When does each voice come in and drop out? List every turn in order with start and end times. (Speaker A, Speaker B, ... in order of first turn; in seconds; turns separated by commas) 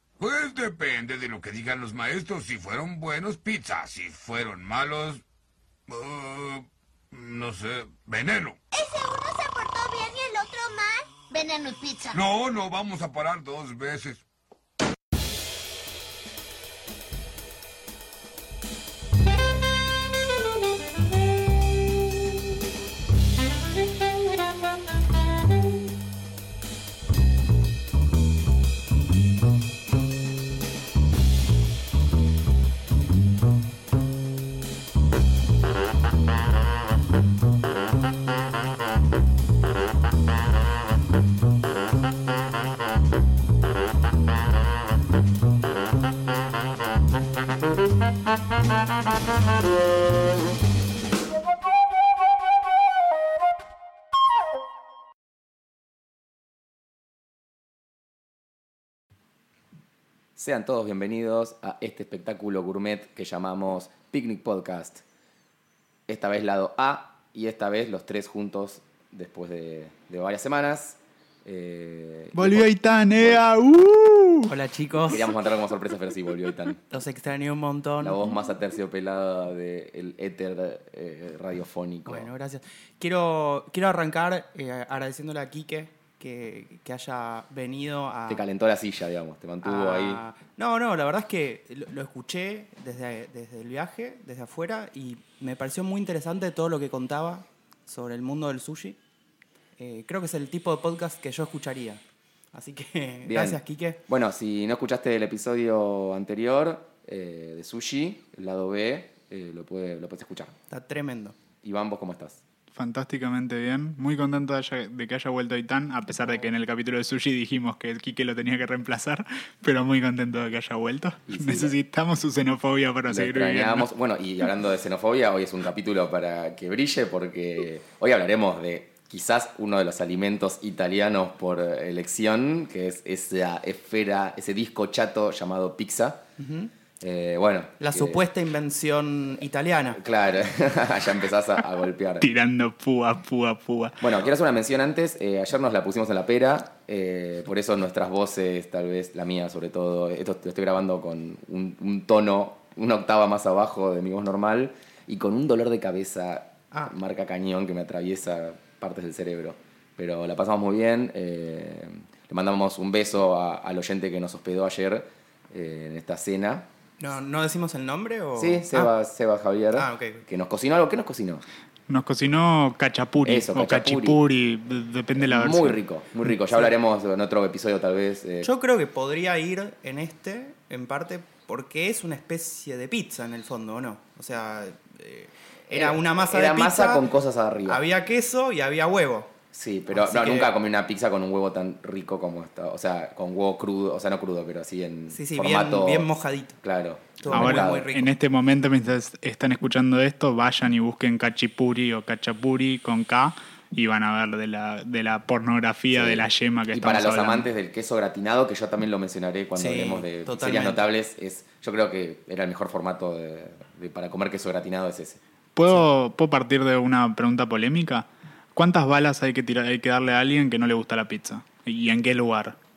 Speaker A: 0.2-5.2, Speaker A: 5.9-8.6, Speaker B: 8.7-12.2, Speaker A: 12.1-14.2, Speaker C: 60.4-65.0, Speaker C: 66.1-73.4, Speaker D: 72.3-74.5, Speaker E: 74.5-75.3, Speaker C: 75.0-76.8, Speaker E: 76.9-78.2, Speaker C: 78.0-82.3, Speaker E: 82.0-88.4, Speaker C: 88.3-90.2, Speaker E: 89.6-99.0, Speaker E: 99.8-102.0, Speaker E: 102.5-104.0, Speaker C: 103.2-110.5, Speaker E: 110.7-111.3, Speaker C: 111.6-112.4, Speaker D: 112.7-123.8, Speaker C: 121.3-121.7, Speaker C: 123.1-136.2, Speaker E: 136.4-136.7, Speaker C: 137.0-138.2, Speaker E: 137.8-140.0, Speaker C: 139.9-142.3, Speaker D: 142.2-144.0, Speaker C: 144.0-166.7, Speaker E: 167.0-168.9, Speaker C: 168.3-171.4, Speaker E: 169.7-170.2, Speaker D: 171.9-175.8, Speaker C: 173.2-174.2, Speaker C: 175.2-178.5, Speaker E: 178.4-187.0, Speaker C: 185.7-187.8, Speaker E: 187.7-189.3, Speaker C: 189.5-196.1, Speaker E: 189.9-190.5, Speaker E: 195.1-196.6, Speaker C: 196.6-197.8, Speaker E: 197.2-198.1, Speaker D: 197.3-207.5, Speaker C: 205.9-215.2, Speaker E: 209.6-210.8, Speaker D: 215.5-222.6